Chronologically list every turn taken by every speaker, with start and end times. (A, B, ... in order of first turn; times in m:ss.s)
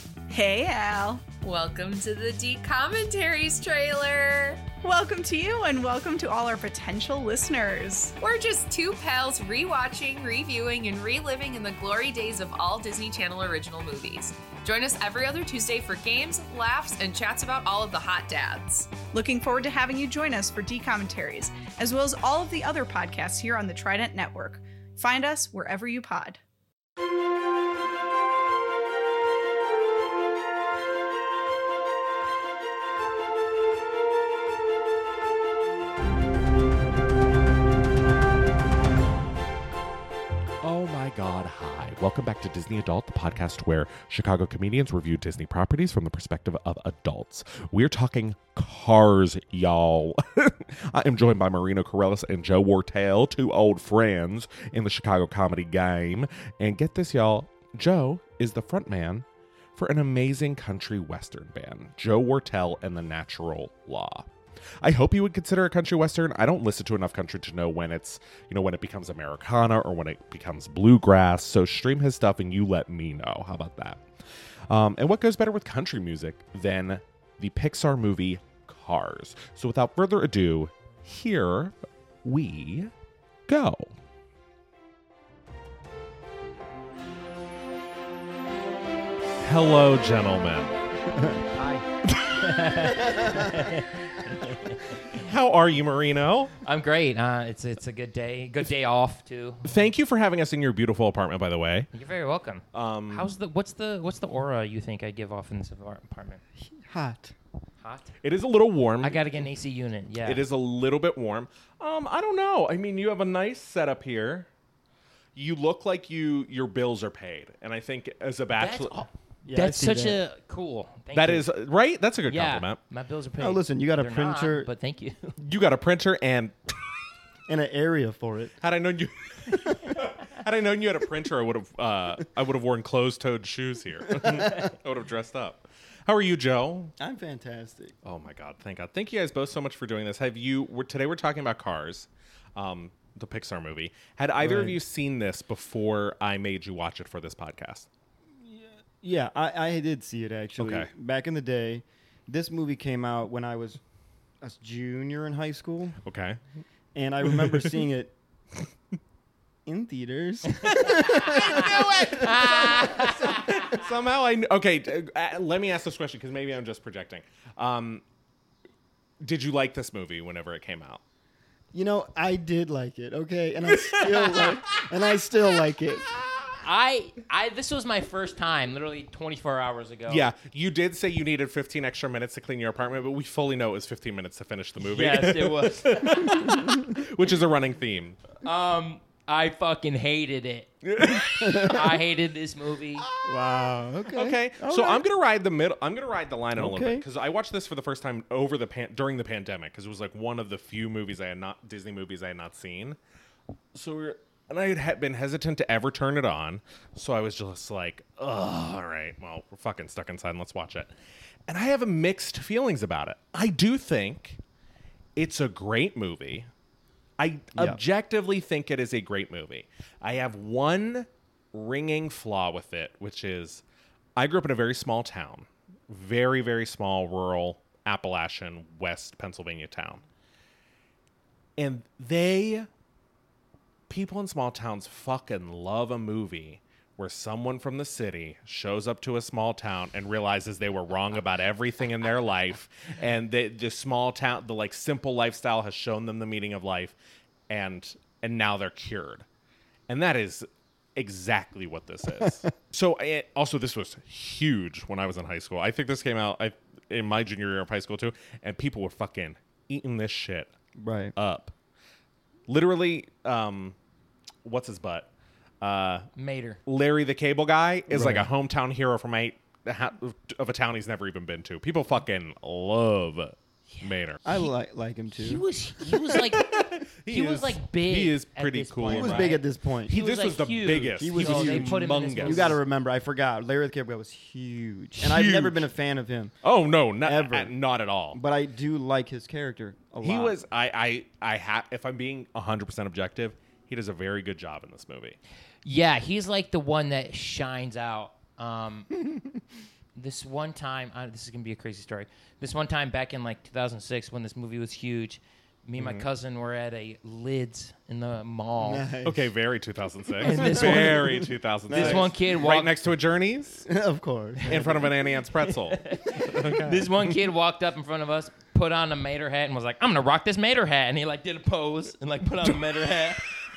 0:00.3-0:01.3 A
0:01.3-0:04.7 B
0:04.8-0:08.2 A
0:08.2-0:19.0 B
0:19.1-0:26.4 A
0:40.6-0:59.2 C
0:59.8-1:04.3 C
1:04.8-1:14.0 C
1:14.7-1:21.7 C
1:22.2-1:22.9 C
1:23.5-1:23.9 C
1:29.4-1:30.8 C
1:31.1-1:31.4 D
1:31.6-1:35.1 E
1:32.1-1:33.0 C
1:35.0-1:36.6 C
1:36.6-1:39.8 E
1:39.6-1:41.9 C
1:41.9-1:46.4 E
1:42.7-1:43.3 C
1:46.6-1:47.3 D
1:47.8-1:48.2 E
1:48.2-1:49.4 C
1:49.0-1:50.4 E
1:50.2-1:54.5 C
1:55.4-1:59.0 C
1:58.6-2:01.5 E
1:59.5-2:00.2 D
2:01.1-2:02.8 C
2:02.3-2:05.4 E
2:03.4-2:04.7 D
2:05.4-2:06.8 C
2:07.5-2:08.6 D
2:08.6-2:17.0 C
2:14.1-2:14.6 D
2:17.0-2:17.9 D
2:18.0-2:27.9 C
2:24.4-2:24.8 D
2:28.4-2:33.8 D
2:30.6-2:30.9 C
2:34.4-2:36.0 D
2:36.0-2:36.4 C
2:36.9-2:38.1 D
2:37.3-2:37.8 C
2:39.7-2:42.5 D
2:40.7-2:48.0 C
2:41.1-2:43.8 E
2:49.2-2:51.0 C
2:51.7-2:56.1 D
2:53.7-2:54.8 C
2:56.6-3:00.3 E
3:00.1-3:08.2 C
3:04.8-3:06.6 E
3:08.4-3:10.7 E
3:10.8-3:12.0 C
3:11.4-3:11.7 D
3:11.5-3:13.1 E
3:13.0-3:13.4 C
3:13.2-3:15.0 D
3:14.1-3:23.0 C
3:16.6-3:17.0 D
3:23.7-3:30.9 C
3:31.5-3:34.4 C
3:35.2-3:36.5 C
3:37.2-3:43.6 C
3:37.6-3:37.8 D
3:44.2-3:50.0 C
3:51.6-3:52.7 C
3:53.9-4:07.0 C
4:07.5-4:09.2 C
4:09.9-4:20.5 C
4:20.8-4:21.1 D
4:21.2-4:21.5 C
4:22.5-4:23.8 C
4:24.4-4:26.1 C
4:26.2-4:26.6 E
4:26.7-4:34.2 C
4:27.9-4:28.3 D
4:33.7-4:34.5 E
4:34.2-4:35.4 D
4:35.2-4:36.6 E
4:35.9-4:42.6 C
4:37.1-4:42.6 E
4:38.9-4:40.0 D
4:41.0-4:46.3 D
4:45.0-4:45.6 C
4:46.4-4:48.2 C
4:47.0-4:47.6 D
4:48.1-4:50.4 D
4:50.0-4:55.2 C
4:55.6-4:58.9 E
5:00.0-5:08.9 E
5:05.8-5:06.1 C
5:08.6-5:09.3 D
5:09.0-5:13.7 C
5:10.2-5:12.7 E
5:10.3-5:11.2 D
5:11.7-5:12.1 D
5:13.6-5:15.0 D
5:14.4-5:17.1 C
5:15.4-5:23.4 E